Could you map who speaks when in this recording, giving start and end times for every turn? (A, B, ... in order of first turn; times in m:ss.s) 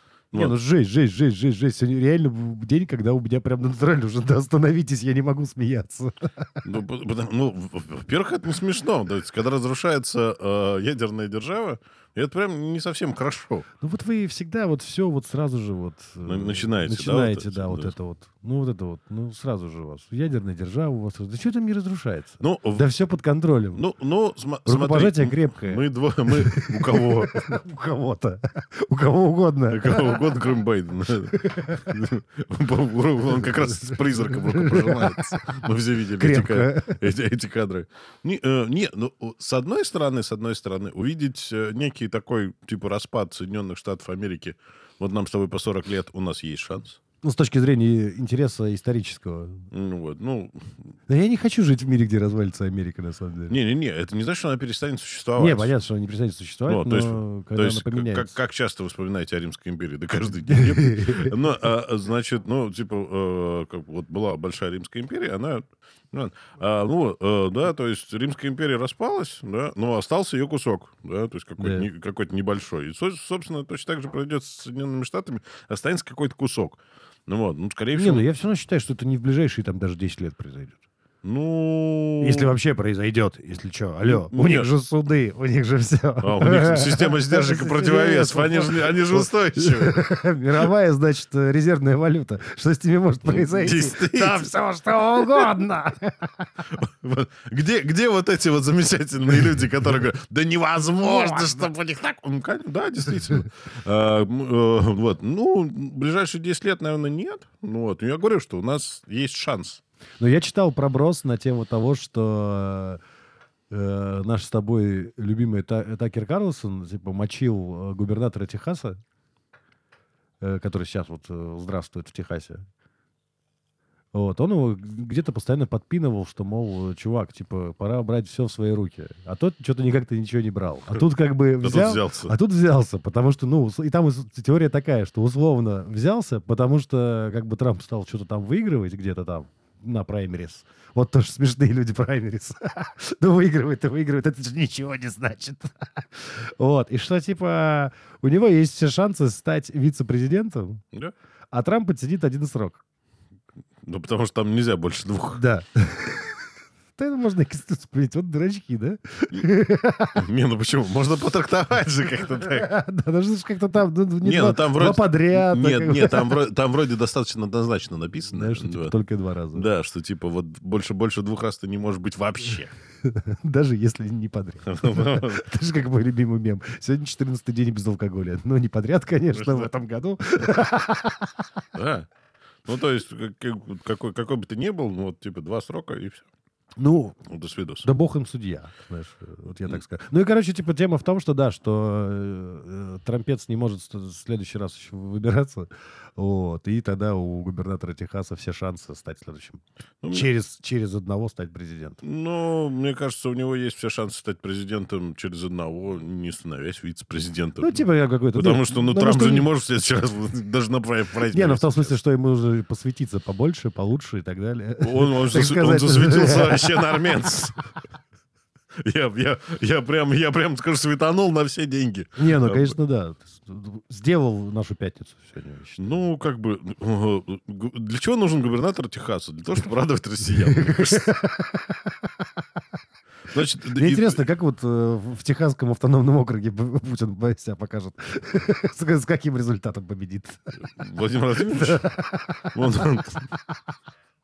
0:00.3-0:00.6 A
0:00.3-0:06.7 B
0:06.6-0:13.6 A
0:13.8-0:23.8 B
0:16.2-0:18.0 A
0:22.4-0:22.9 A
0:23.7-0:27.5 A
0:24.6-0:30.2 B
0:29.7-0:47.0 A
0:31.3-0:31.9 B
0:33.6-0:35.4 B
0:36.2-0:37.0 B
0:47.2-0:49.6 B
0:49.7-0:50.7 A
0:51.1-0:53.6 B
0:53.5-0:55.7 A
0:55.4-0:58.3 B
0:56.7-1:18.2 A
1:00.5-1:01.3 B
1:11.6-1:11.9 B
1:17.9-1:20.8 B
1:21.2-1:22.5 A
1:22.2-1:36.5 B
1:24.0-1:24.7 A
1:26.2-1:30.0 A
1:33.2-1:34.5 A
1:35.1-1:35.5 A
1:36.7-1:49.8 A
1:41.0-1:41.5 B
1:50.2-1:53.0 B
1:53.7-1:59.0 B
2:00.4-2:02.6 B
2:04.1-2:30.8 B
2:11.6-2:12.4 A
2:31.5-2:32.8 B
2:33.8-2:35.4 A
2:35.3-2:36.4 B
2:37.0-2:40.2 B
2:40.1-2:42.7 A
2:42.4-2:46.4 B
2:44.2-2:49.0 A
2:48.3-2:49.7 B
2:49.5-2:52.7 A
2:53.1-3:01.4 B
2:54.6-2:55.4 A
2:59.3-2:59.7 A
3:01.7-3:02.1 A
3:02.6-3:06.2 A
3:06.8-3:07.2 B
3:07.3-3:07.9 A
3:07.8-3:22.0 B
3:20.0-3:20.3 A
3:22.0-3:32.0 A
3:27.6-3:29.5 B
3:31.3-3:37.0 B
3:34.8-3:37.6 A
3:38.9-3:42.8 A
3:42.2-3:45.9 B
3:45.8-3:51.1 A
3:50.3-3:52.3 B
3:53.3-3:54.2 A
3:53.6-4:00.6 B
4:00.8-4:01.9 A
4:01.6-4:02.6 B
4:02.5-4:03.3 A